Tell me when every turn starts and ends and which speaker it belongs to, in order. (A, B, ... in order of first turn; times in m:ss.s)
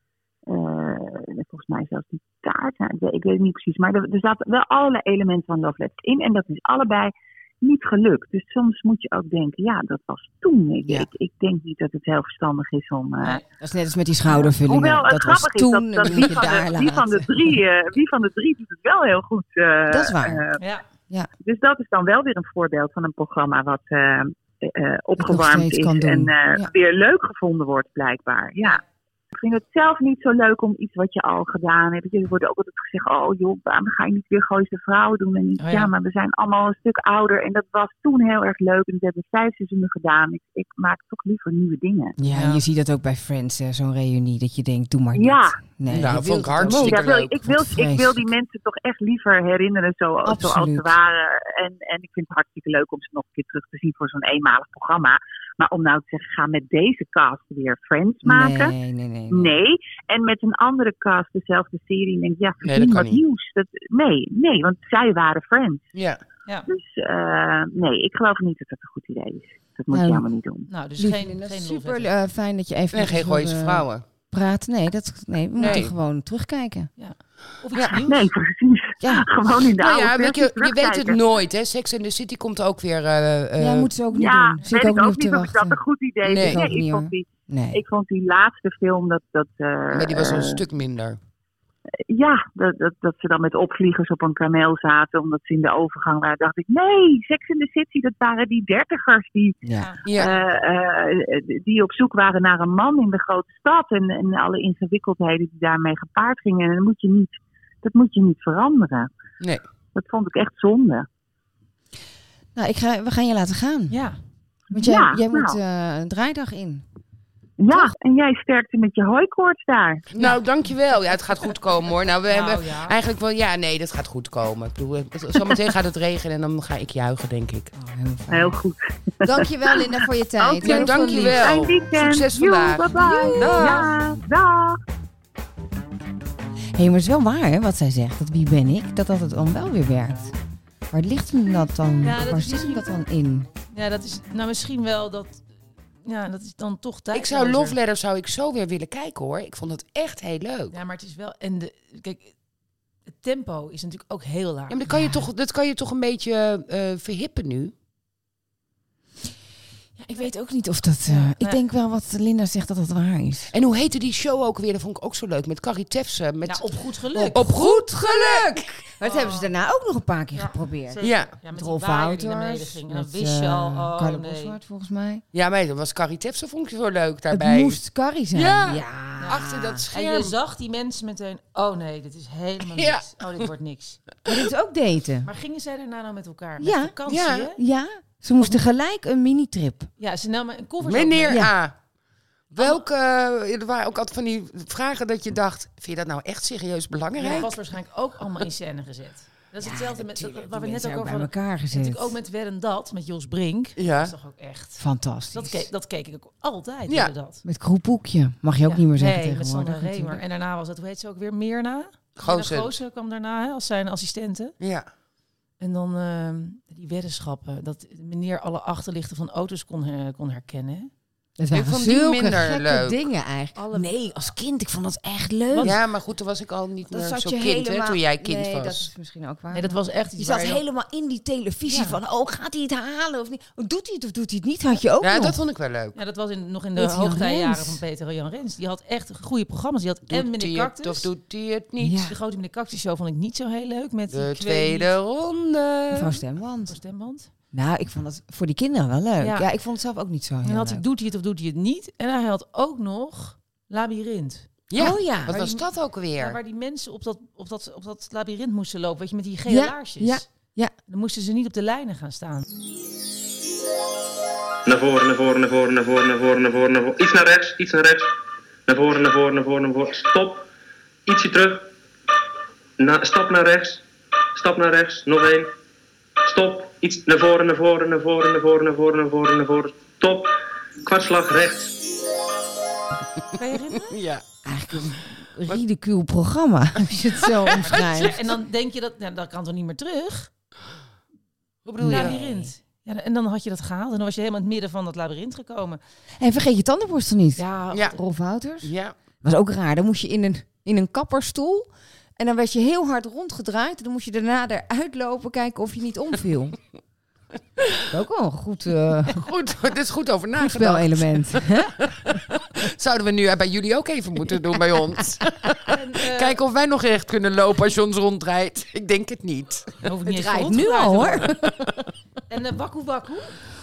0:00.5-0:13.4 A
0:13.6-0:17.6 B
0:14.3-0:20.6 A
0:19.9-0:20.4 B
0:20.6-0:20.8 C
0:21.4-0:42.2 A
0:25.2-0:26.7 B
0:35.6-0:35.9 C
0:42.2-0:48.3 B
0:42.3-0:42.6 C
0:45.1-0:45.6 A
0:45.9-0:47.4 D
0:46.6-0:58.7 A
0:50.2-0:51.0 B
0:58.2-0:59.6 B
0:59.3-1:05.8 A
1:02.6-1:03.2 D
1:05.9-1:06.2 D
1:06.7-1:10.7 A
1:09.9-1:10.2 B
1:10.7-1:12.1 C
1:11.0-1:16.9 B
1:12.9-1:14.0 D
1:15.6-1:15.8 C
1:15.6-1:15.9 D
1:17.0-1:18.3 C
1:18.0-1:21.2 A
1:19.0-1:19.3 B
1:19.8-1:23.9 D
1:23.6-1:25.8 B
1:24.1-1:30.6 A
1:26.2-1:26.7 D
1:26.4-1:27.8 B
1:29.9-1:31.2 D
1:32.1-1:39.6 A
1:39.7-1:40.3 C
1:40.0-1:40.3 D
1:40.2-1:49.1 A
1:49.9-1:51.1 A
1:52.5-1:54.0 B
1:53.9-1:54.2 C
1:54.7-1:56.8 B
1:54.7-1:55.6 A
1:57.6-2:00.0 A
1:57.7-1:57.9 B
2:00.1-2:07.7 D
2:02.3-2:02.9 C
2:07.7-2:08.6 B
2:08.3-2:14.8 A
2:09.2-2:11.5 B
2:10.6-2:13.9 D
2:12.9-2:13.9 B
2:16.7-2:20.3 B
2:20.9-2:23.5 B
2:22.0-2:22.8 C
2:23.7-2:25.4 C
2:26.0-2:27.8 C
2:27.1-2:30.7 D
2:30.7-2:32.3 C
2:33.1-2:34.8 C
2:34.7-2:37.7 D
2:34.9-2:35.2 B
2:40.0-2:43.5 B
2:41.0-2:41.6 C
2:43.5-2:46.7 D
2:46.4-2:47.5 C
2:47.1-2:55.2 B
2:47.3-2:48.6 D
2:49.0-2:49.5 C
2:50.3-2:54.6 C
2:51.0-2:51.3 D
2:55.3-2:57.8 D
2:57.3-2:59.8 B
2:58.3-3:00.3 D
2:59.2-3:04.0 C
3:02.7-3:03.4 D
3:04.2-3:05.3 B
3:05.2-3:07.6 C
3:06.6-3:07.0 B
3:07.1-3:07.5 D
3:07.5-3:09.9 B
3:10.0-3:11.4 C
3:10.8-3:11.7 D
3:11.3-3:11.5 B
3:12.5-3:17.5 D
3:12.6-3:12.8 C
3:17.2-3:27.4 C
3:19.6-3:22.1 B
3:23.8-3:24.1 D
3:24.8-3:25.7 B
3:26.9-3:27.1 D
3:27.4-3:30.2 B
3:28.6-3:34.5 C
3:32.2-3:32.7 D
3:34.6-3:34.8 D
3:35.6-3:40.9 C
3:41.4-3:45.8 B
3:41.5-3:43.0 D
3:43.5-3:43.9 C
3:45.5-3:45.8 C
3:45.6-3:48.9 D
3:46.9-3:55.4 B
3:49.5-3:50.6 C
3:51.6-3:52.0 C
3:55.0-3:56.0 D
3:55.9-4:01.1 C
3:56.8-3:57.8 B
4:00.1-4:02.0 D
4:01.8-4:02.2 B
4:02.0-4:04.9 C
4:04.1-4:06.2 D
4:05.9-4:06.8 B
4:06.7-4:07.3 C
4:07.5-4:10.8 B
4:09.2-4:09.5 C
4:10.4-4:14.5 C
4:14.7-4:16.4 D
4:14.7-4:15.4 B
4:15.3-4:15.6 C
4:16.2-4:20.2 C
4:19.4-4:20.7 B
4:20.9-4:22.4 C
4:24.6-4:28.1 E
4:28.7-4:30.5 E
4:31.0-4:31.7 E
4:32.8-4:33.8 E
4:34.3-4:35.5 E
4:36.2-4:41.7 E
4:43.4-4:44.0 C
4:43.9-4:44.2 D
4:44.4-4:48.2 B
4:47.5-4:48.1 D
4:47.5-4:50.3 C
4:51.6-4:52.2 D
4:51.8-4:52.5 B
4:51.8-4:55.8 C
4:56.2-5:06.6 B
4:57.4-4:58.0 C
4:58.6-4:58.9 D
5:07.9-5:09.2 B
5:09.1-5:19.8 D
5:10.4-5:12.2 B
5:15.7-5:16.4 C
5:19.8-5:21.3 C
5:20.0-5:21.9 B
5:22.3-5:23.4 C